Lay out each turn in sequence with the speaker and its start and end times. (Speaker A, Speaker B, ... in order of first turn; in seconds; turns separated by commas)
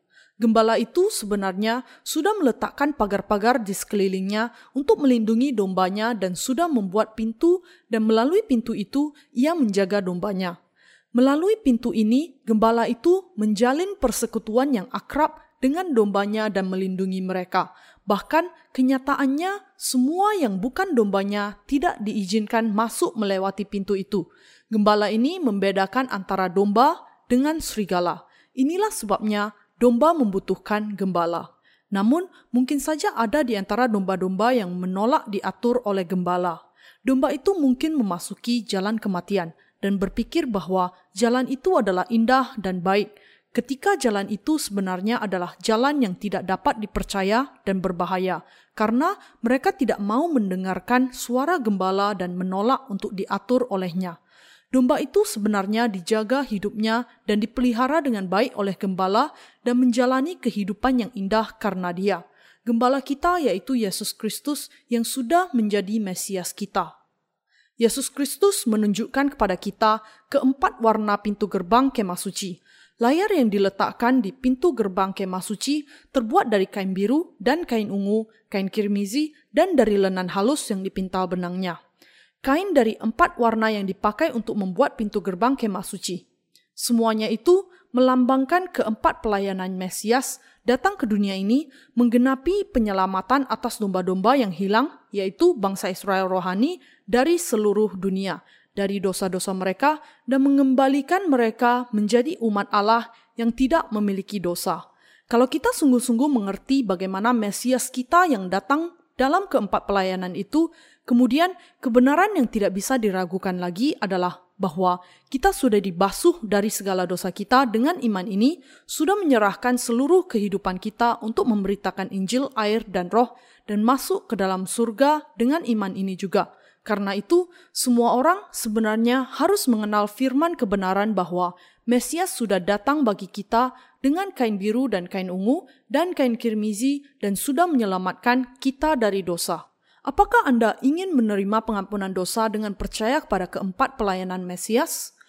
Speaker A: 0.4-10.6, Speaker A: 11.2-54.2, Speaker A: 54.7-66.9, Speaker A: 67.8-81.8, Speaker A: 82.4-86.2, Speaker A: 86.8-145.1